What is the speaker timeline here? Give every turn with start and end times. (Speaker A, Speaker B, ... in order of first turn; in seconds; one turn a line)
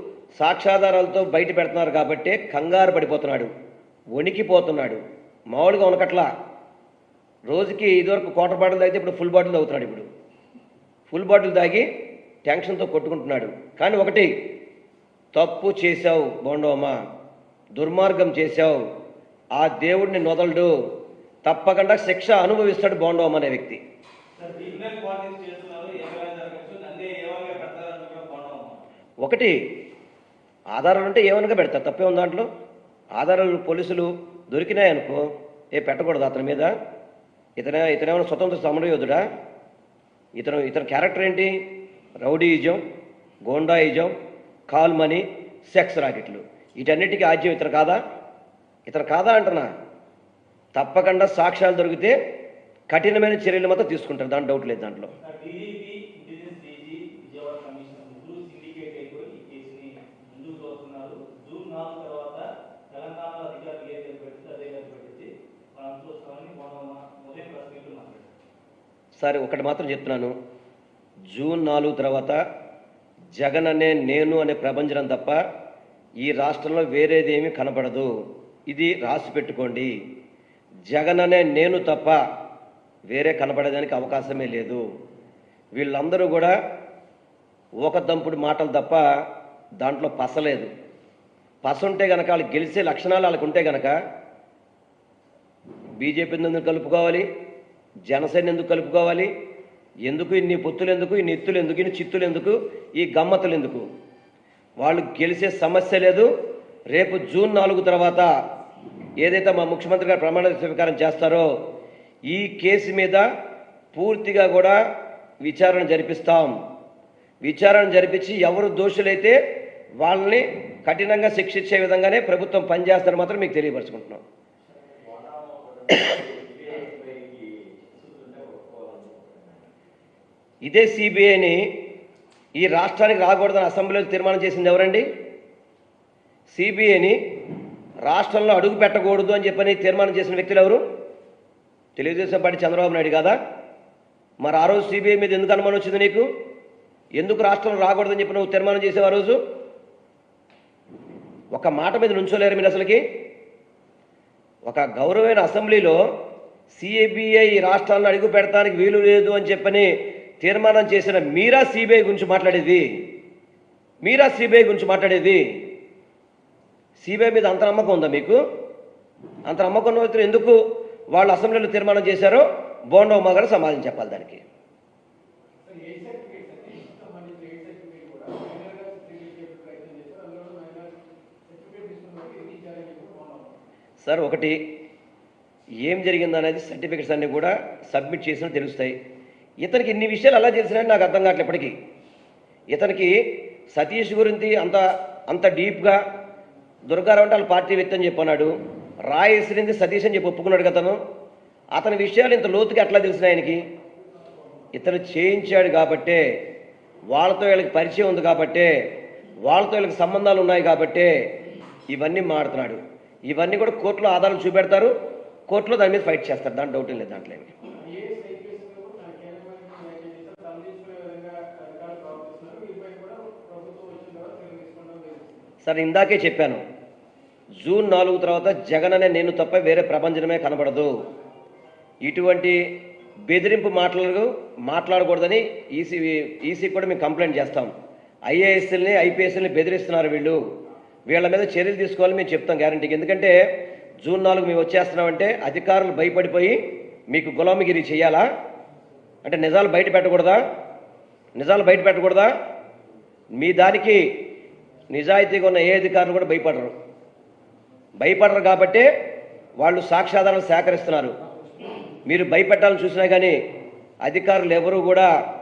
Speaker A: 0.4-3.5
Speaker A: 4.2-5.0
Speaker A: 5.5-6.3
Speaker A: 7.5-10.1
Speaker A: 11.1-11.9
Speaker A: 12.4-14.3
Speaker A: 15.3-17.0
Speaker A: 17.8-18.8
Speaker A: 19.6-20.7
Speaker A: 21.4-23.8
Speaker B: 24.4-28.8
Speaker A: 29.2-29.6
Speaker A: 30.7-32.5
Speaker A: 33.2-35.2
Speaker A: 35.8-36.7
Speaker A: 37.6-39.2
Speaker A: 40.4-41.5
Speaker A: 42.2-42.8
Speaker A: 43.5-44.1
Speaker A: 44.7-48.0
Speaker A: 48.9-49.7
Speaker A: 50.8-52.1
Speaker A: 52.9-55.1
Speaker B: 55.2-68.3
Speaker A: 69.2-70.3
Speaker A: 71.3-72.4
Speaker A: 73.4-75.4
Speaker A: 76.2-78.1
Speaker A: 78.7-79.9
Speaker A: 80.9-82.2
Speaker A: 83.1-84.8
Speaker A: 85.8-86.5
Speaker A: 87.8-89.0
Speaker A: 89.8-90.7
Speaker A: 91.6-93.9
Speaker A: 96.0-97.2
Speaker A: 98.1-99.3
Speaker A: 100.1-103.8
Speaker A: 104.8-106.3
Speaker A: 106.9-108.3
Speaker A: 109.2-111.5
Speaker A: 112.3-113.2
Speaker A: 113.9-114.8
Speaker A: 115.4-116.5
Speaker A: 117.4-119.4
Speaker A: 120.0-124.2
Speaker B: 125.0-127.4
Speaker B: 127.9-129.4
Speaker A: 130.7-131.6
Speaker A: 132.6-135.1
Speaker A: 136.5-137.2
Speaker A: 138.1-140.8
Speaker A: 142.0-143.3
Speaker A: 144.4-146.2
Speaker A: 147.2-149.4
Speaker A: 151.5-153.0
Speaker A: 154.7-156.0
Speaker A: 156.8-159.9
Speaker A: 160.4-162.8
Speaker A: 164.0-165.4
Speaker A: 167.0-168.4
Speaker A: 169.5-170.6
Speaker A: 171.1-174.4
Speaker C: 175.6-180.9
Speaker C: 181.5-183.5
Speaker A: 184.0-184.6
Speaker A: 185.8-188.9
Speaker A: 189.6-191.7
Speaker A: 192.7-193.1
Speaker A: 193.7-196.0
Speaker A: 196.9-198.5
Speaker A: 199.1-201.0
Speaker A: 201.8-203.6
Speaker A: 204.7-206.2
Speaker A: 207.1-208.7
Speaker A: 209.4-211.1
Speaker A: 211.9-214.9
Speaker A: 215.5-217.5
Speaker C: 217.8-225.4
Speaker A: 225.6-226.6
Speaker A: 227.6-230.9
Speaker A: 232.0-232.6
Speaker A: 233.3-237.7
Speaker A: 238.3-240.4
Speaker A: 241.1-243.3
Speaker A: 244.0-246.6
Speaker A: 247.1-248.2
Speaker A: 249.2-250.4
Speaker A: 251.4-252.3
Speaker A: 253.4-254.0
Speaker A: 254.9-256.7
Speaker A: 258.0-258.9
Speaker A: 259.6-261.1
Speaker A: 262.1-263.4
Speaker A: 264.1-265.1